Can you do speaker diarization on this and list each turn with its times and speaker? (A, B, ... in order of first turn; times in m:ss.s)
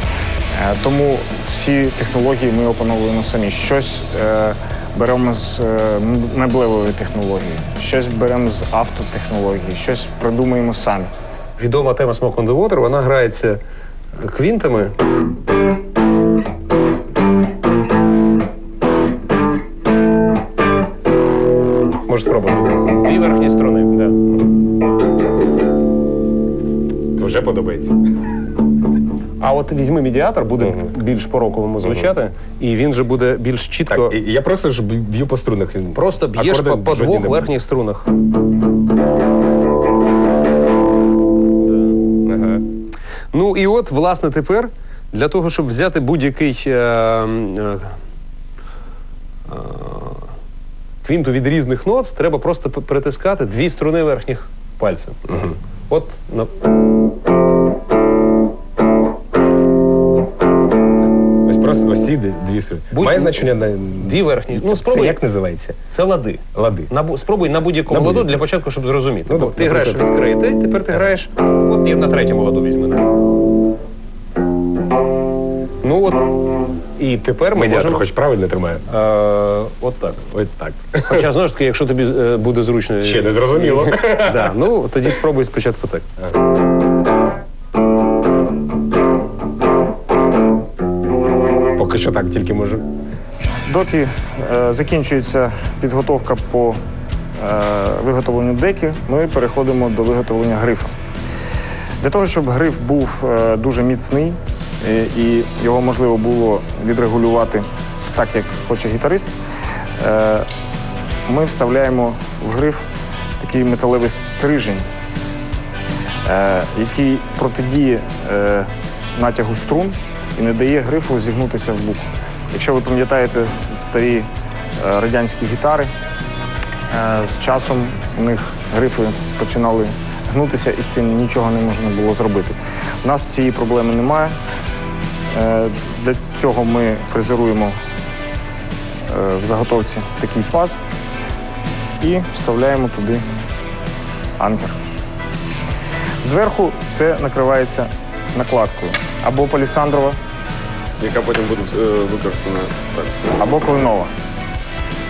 0:00.5-0:11.1 A
0:11.6-0:13.6 B
0:14.2-0:15.0 B
0:22.1-0:24.2 B
0:27.1-0:28.0 C
0:29.4-0:34.2 B
0:30.6-0:30.9 C
0:31.8-0:32.1 C
0:33.9-0:37.5 C
0:35.9-0:38.1 B
0:41.6-0:42.0 B
0:42.2-0:42.6 C
0:43.3-0:48.0 B
0:49.5-0:50.3 B
0:51.0-0:56.5 B
1:01.4-1:05.8 C
1:02.9-1:05.2 B
1:05.9-1:13.1 B
1:06.5-1:06.9 C
1:07.9-1:08.4 C
1:09.2-1:10.0 C
1:15.8-1:16.4 B
1:17.0-1:18.0 B
1:17.5-1:18.8 C
1:18.9-1:20.2 B
1:20.2-1:21.3 C
1:21.0-1:26.1 B
1:23.0-1:24.6 C
1:31.8-1:32.8 C
1:33.7-1:36.8 A
1:37.4-1:40.9 A
1:42.0-1:49.3 A
1:50.0-1:50.5 A
1:51.3-1:52.8 A
1:53.4-1:54.8 A
1:56.2-2:05.9 A
2:06.9-2:14.3 A
2:15.3-2:17.8 A
2:19.1-2:20.8 A
2:22.0-2:23.2 A
2:24.4-2:24.8 A
2:26.2-2:30.2 A
2:31.0-2:33.5 D
2:33.4-2:34.1 A